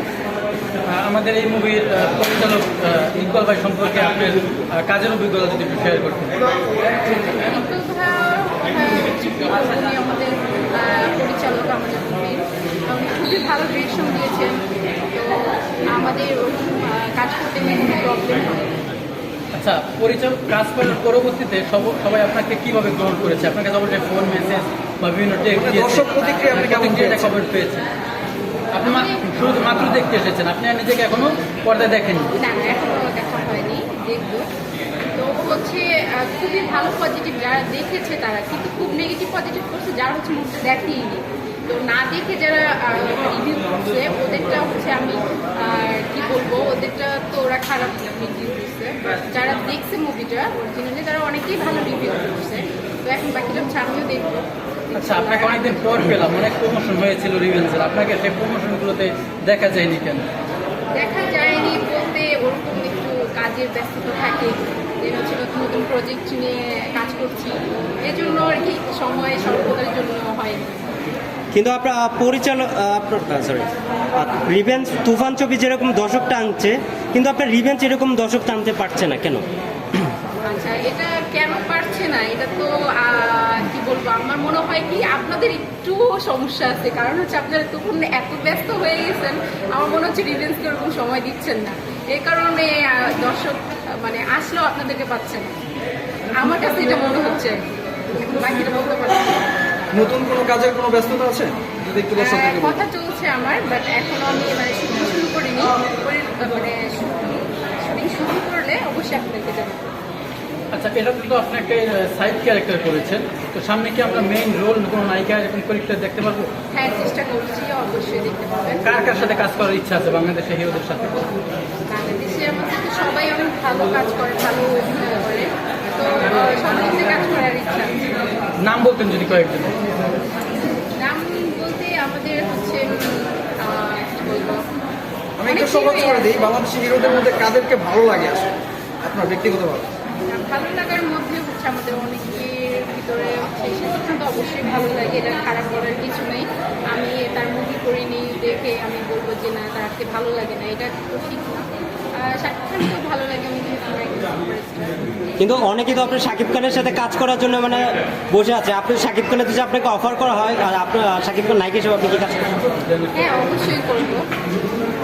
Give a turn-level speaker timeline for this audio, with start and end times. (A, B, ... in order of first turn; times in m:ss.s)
0:00.9-0:06.4 A
0:07.0-0:18.8 B
0:19.5-0:27.8 A
0:25.5-0:27.3 C
0:28.7-0:32.3 A
0:28.8-0:29.2 B
0:32.3-0:34.5 B
0:35.2-0:56.0 B
0:55.0-1:00.3 A
1:01.0-1:10.8 B
1:11.5-1:19.4 D
1:20.4-1:35.6 B
1:36.3-1:39.5 B
1:39.9-1:42.8 C
1:42.2-1:49.9 B
1:50.7-1:56.5 A
1:56.7-1:58.9 B
1:58.8-2:01.3 A
2:01.9-2:08.1 B
2:08.6-2:09.8 A
2:10.9-2:14.6 B
2:15.4-2:18.5 C
2:15.4-2:16.6 B
2:19.0-2:19.9 C
2:20.3-2:35.0 B
2:35.4-2:42.6 D
2:42.7-2:43.4 A
2:43.1-2:44.3 B